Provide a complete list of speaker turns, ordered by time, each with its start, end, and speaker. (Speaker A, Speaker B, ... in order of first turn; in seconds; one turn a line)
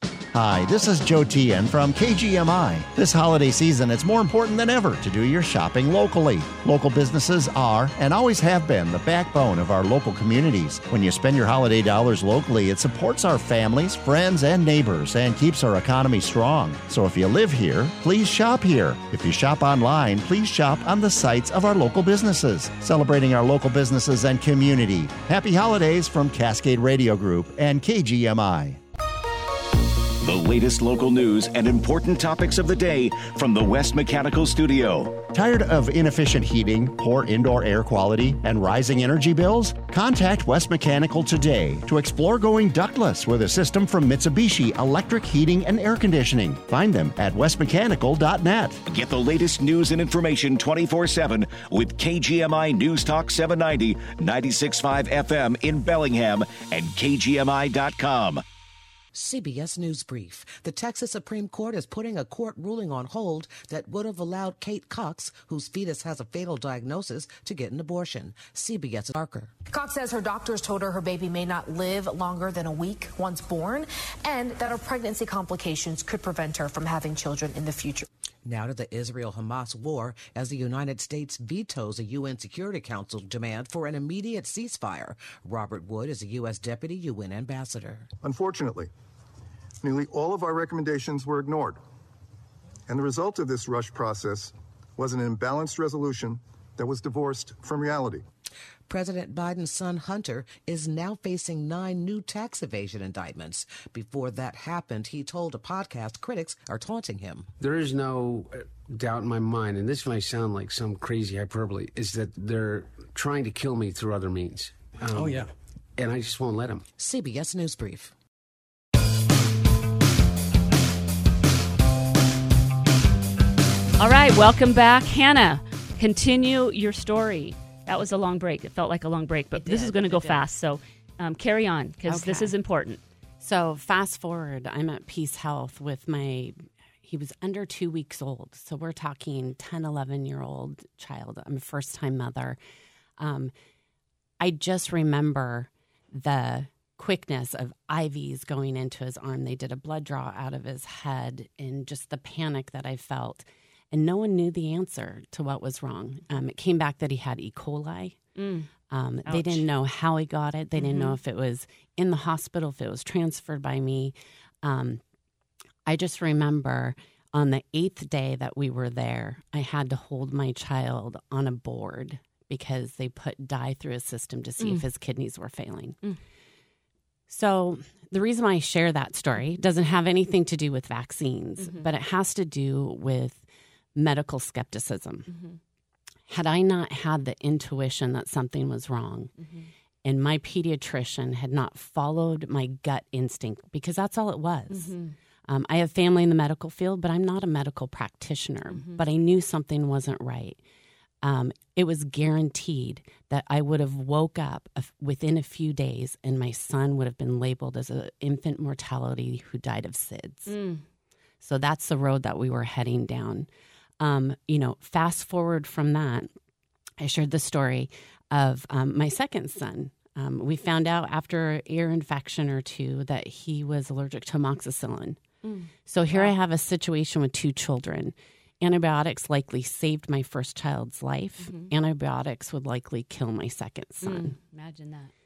Speaker A: 0.3-28.8
Speaker B: 30.2-35.2
Speaker A: 35.3-48.8
Speaker B: 48.8-58.4
Speaker C: 59.1-69.5
Speaker D: 69.7-78.0
Speaker C: 78.4-88.1
Speaker E: 88.2-88.9
Speaker E: 89.8-91.8
Speaker E: 92.9-98.2
Speaker C: 98.9-107.5
Speaker F: 107.6-116.8
Speaker C: 117.0-118.1
Speaker G: 124.0-133.0
Speaker H: 129.5-130.5
Speaker H: 132.0-132.5
Speaker H: 133.4-142.6
Speaker H: 143.2-143.5
Speaker H: 144.4-158.2
Speaker G: 158.3-158.7
Speaker H: 158.9-165.0
Speaker G: 159.2-159.7
Speaker G: 160.8-161.2
Speaker H: 165.8-176.0
Speaker G: 174.6-174.8
Speaker H: 177.3-185.3
Speaker G: 181.6-181.9
Speaker G: 185.3-185.6
Speaker H: 186.3-189.3
Speaker G: 189.4-189.7
Speaker H: 190.0-194.9
Speaker G: 194.7-195.2
Speaker H: 195.4-200.6
Speaker G: 198.7-199.0
Speaker H: 201.2-210.6
Speaker G: 210.5-210.8
Speaker H: 211.4-213.5
Speaker H: 214.0-216.3
Speaker H: 217.0-225.2
Speaker G: 225.4-226.3
Speaker H: 225.8-234.3
Speaker G: 231.4-231.7
Speaker G: 234.0-235.1